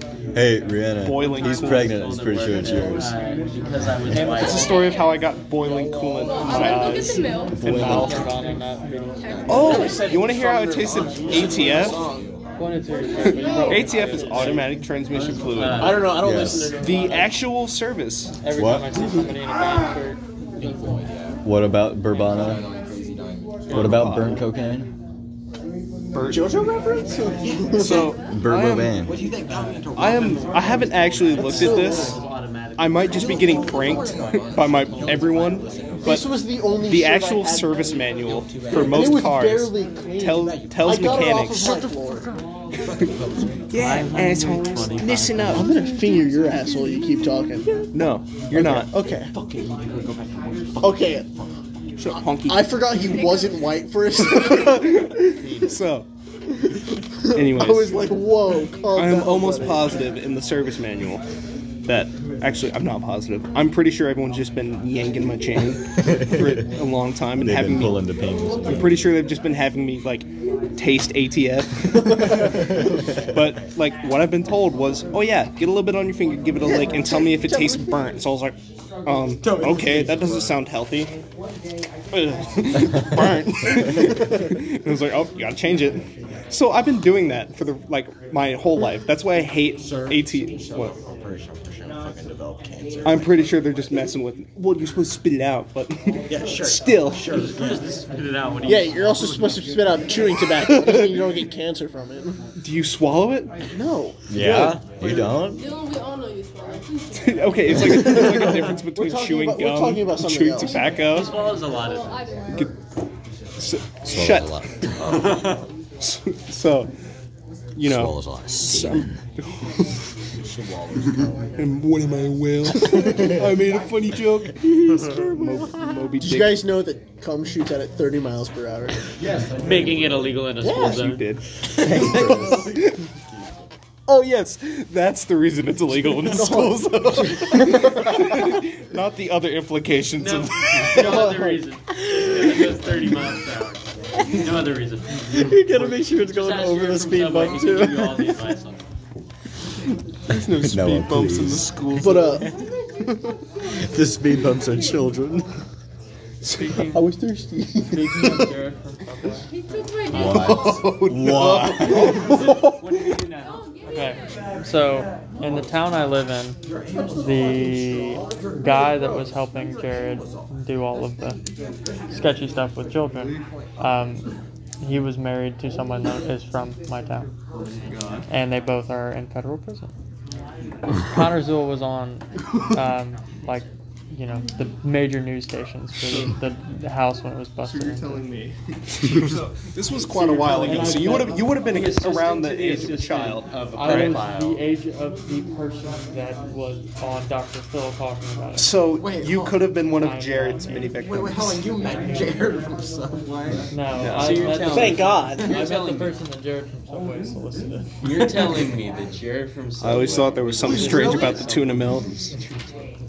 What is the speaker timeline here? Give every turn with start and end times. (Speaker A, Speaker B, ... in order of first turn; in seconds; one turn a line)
Speaker A: 0.3-3.1
Speaker B: 1.0-2.1
Speaker C: 1.3-4.9
Speaker D: 4.1-4.5
Speaker B: 4.1-8.2
Speaker E: 4.6-5.1
Speaker E: 6.2-8.1
Speaker A: 7.5-8.3
Speaker D: 7.6-9.3
Speaker C: 8.0-8.5
Speaker E: 9.2-10.2
Speaker F: 9.2-10.1
Speaker B: 9.5-12.1
Speaker G: 9.5-12.3
Speaker F: 10.8-12.7
Speaker D: 12.6-14.7
Speaker G: 13.2-14.5
Speaker B: 13.7-16.2
Speaker C: 14.3-17.3
Speaker G: 15.5-17.1
Speaker A: 16.2-16.8
Speaker B: 16.8-18.3
Speaker D: 18.4-20.2
Speaker A: 18.5-19.1
Speaker F: 20.6-21.4
Speaker A: 21.4-22.6
Speaker F: 22.1-23.9
Speaker B: 23.7-24.4
Speaker A: 23.7-24.9
Speaker B: 26.1-26.6
Speaker G: 26.2-28.2
Speaker F: 27.4-27.8
Speaker B: 27.8-28.9
Speaker A: 28.3-29.2
Speaker F: 28.9-32.2
Speaker B: 29.9-32.2
Speaker C: 30.1-35.2
Speaker G: 31.4-32.2
Speaker B: 32.8-36.3
Speaker F: 33.0-36.3
Speaker G: 36.0-38.1
Speaker B: 36.9-43.1
Speaker F: 38.1-39.3
Speaker G: 38.7-42.3
Speaker F: 40.4-41.9
Speaker F: 42.8-43.8
Speaker B: 43.7-46.1
Speaker C: 43.8-45.8
Speaker G: 45.5-47.9
Speaker B: 47.9-48.9
Speaker F: 48.5-51.4
Speaker G: 48.5-49.3
Speaker G: 50.8-51.3
Speaker B: 52.0-53.1
Speaker G: 52.1-55.1
Speaker B: 54.2-56.1
Speaker C: 55.4-55.7
Speaker G: 56.7-60.1
Speaker B: 57.3-58.1
Speaker B: 58.9-61.2
Speaker B: 61.9-68.0
Speaker A: 66.0-66.6
Speaker A: 67.4-69.1
Speaker B: 68.6-81.1
Speaker A: 72.3-73.0
Speaker G: 76.6-78.0
Speaker F: 79.4-80.6
Speaker B: 82.1-90.9
Speaker G: 83.9-84.5
Speaker F: 89.7-94.0
Speaker B: 93.0-97.3
Speaker F: 96.3-97.9
Speaker C: 97.3-100.2
Speaker G: 98.6-102.4
Speaker B: 100.6-101.2
Speaker B: 102.6-103.5
Speaker G: 103.7-104.8
Speaker A: 104.3-105.6
Speaker F: 104.6-105.3
Speaker E: 105.4-108.2
Speaker B: 107.1-111.3
Speaker G: 107.7-111.0
Speaker C: 111.0-112.2
Speaker E: 111.1-112.7
Speaker B: 113.6-114.6
Speaker A: 114.1-114.8
Speaker B: 116.0-116.9
Speaker B: 117.8-119.9
Speaker A: 117.8-119.2
Speaker F: 120.4-121.5
Speaker B: 121.6-126.6
Speaker G: 122.7-123.4
Speaker G: 126.2-129.0
Speaker F: 129.2-130.3
Speaker C: 129.6-131.2
Speaker G: 130.6-131.1
Speaker B: 130.9-133.0
Speaker A: 131.7-132.9
Speaker G: 131.8-132.6
Speaker B: 134.1-141.4
Speaker G: 136.1-138.6
Speaker C: 140.2-148.8
Speaker G: 140.9-141.6
Speaker A: 142.1-142.7
Speaker A: 145.3-148.5
Speaker B: 150.3-153.3
Speaker A: 150.5-152.2
Speaker G: 151.9-152.5
Speaker A: 153.7-155.5
Speaker B: 156.4-156.8
Speaker D: 156.5-157.0
Speaker G: 156.9-158.5
Speaker D: 157.8-159.5
Speaker E: 159.5-160.9
Speaker A: 160.1-162.2
Speaker B: 160.3-163.2
Speaker G: 162.1-162.8
Speaker F: 162.3-163.6
Speaker E: 163.4-164.3
Speaker D: 163.9-166.6
Speaker F: 166.7-167.5
Speaker D: 167.1-171.4
Speaker F: 168.1-170.4
Speaker D: 172.1-174.3
Speaker D: 174.8-177.3
Speaker B: 177.9-178.2
Speaker D: 178.3-179.9
Speaker D: 180.9-188.2
Speaker B: 186.1-186.3
Speaker B: 187.6-194.2
Speaker C: 189.9-194.6
Speaker F: 190.4-191.6
Speaker D: 190.6-191.2
Speaker D: 193.8-198.7
Speaker B: 198.6-201.6
Speaker F: 198.9-199.8
Speaker D: 200.0-200.9
Speaker F: 200.9-205.8
Speaker D: 201.8-202.3
Speaker D: 203.7-207.9
Speaker B: 204.0-204.5
Speaker C: 204.2-206.2
Speaker G: 204.6-205.6
Speaker C: 208.0-212.6
Speaker F: 208.2-208.7
Speaker B: 209.8-212.3
Speaker F: 210.6-211.4
Speaker G: 210.7-211.4